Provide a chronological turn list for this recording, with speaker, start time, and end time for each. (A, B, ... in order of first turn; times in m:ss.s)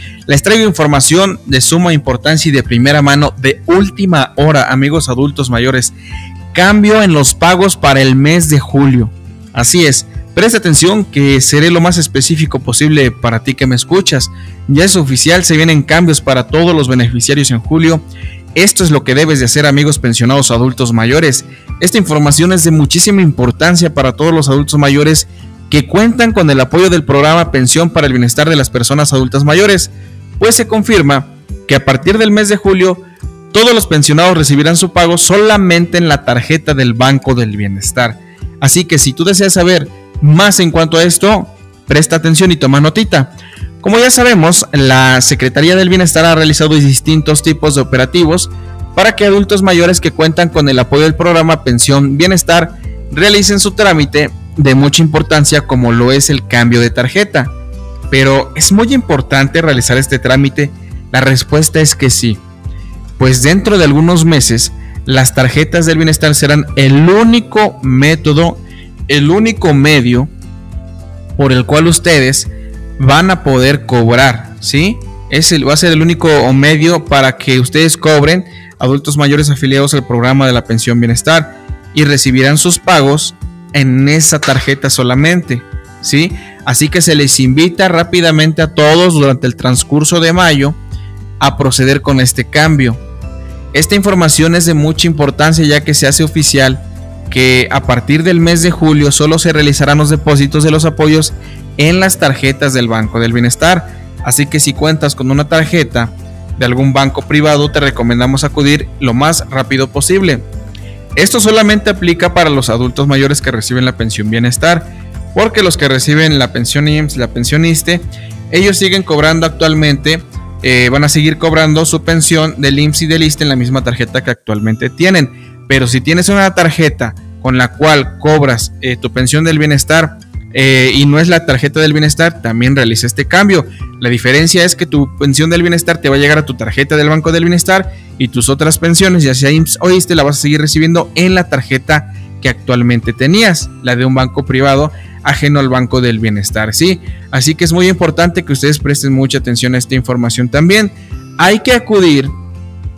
0:00.3-0:06.0 A
0:06.5-0:18.0 A
0:18.5-0:57.5 A
0:58.1-1:02.4 A
1:03.2-1:10.3 A
1:11.4-1:30.8 A
1:31.4-1:33.0 A
1:33.7-1:50.4 A
1:51.2-2:32.3 A